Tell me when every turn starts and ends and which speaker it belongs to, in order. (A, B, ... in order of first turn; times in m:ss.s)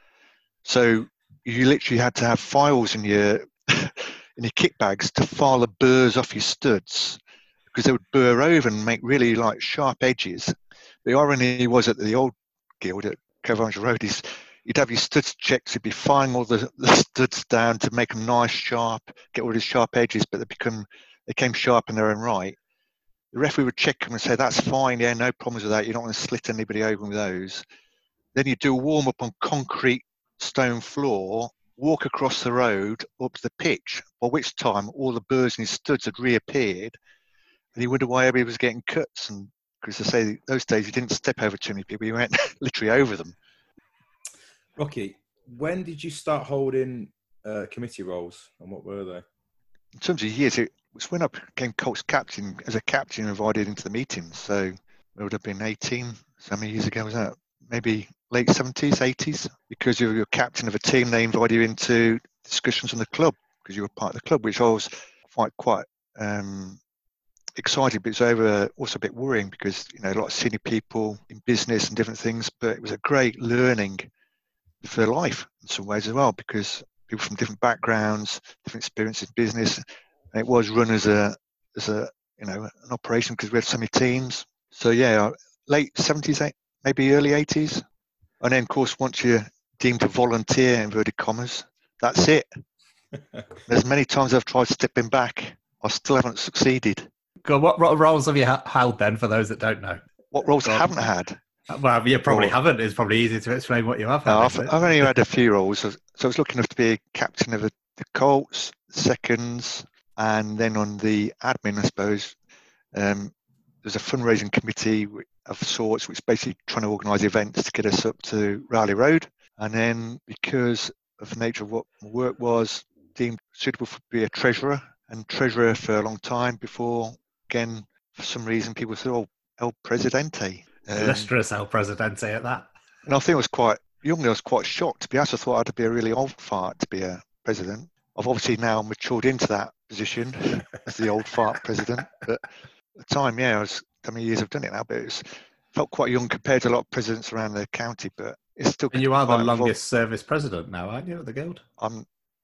0:00.6-0:07.2 A
0:07.7-0:10.5 A
0:11.0-0:22.6 A
0:23.3-0:27.6 A
0:28.4-0:37.0 A
0:37.8-0:43.4 A
0:44.8-0:49.2 B
0:50.0-1:06.8 A
1:07.6-1:14.1 A
1:14.8-1:27.8 A
1:28.4-1:32.5 A
1:33.6-1:37.1 A
1:37.4-1:40.0 C
1:40.3-1:41.4 A
1:40.6-1:41.0 C
1:41.7-1:44.9 C
1:42.2-1:42.6 A
1:44.3-1:52.4 A
1:53.0-1:53.3 A
1:53.8-2:11.3 A
2:11.0-2:12.7 C
2:13.1-2:29.8 A
2:28.9-2:31.6 C
2:31.8-2:32.0 A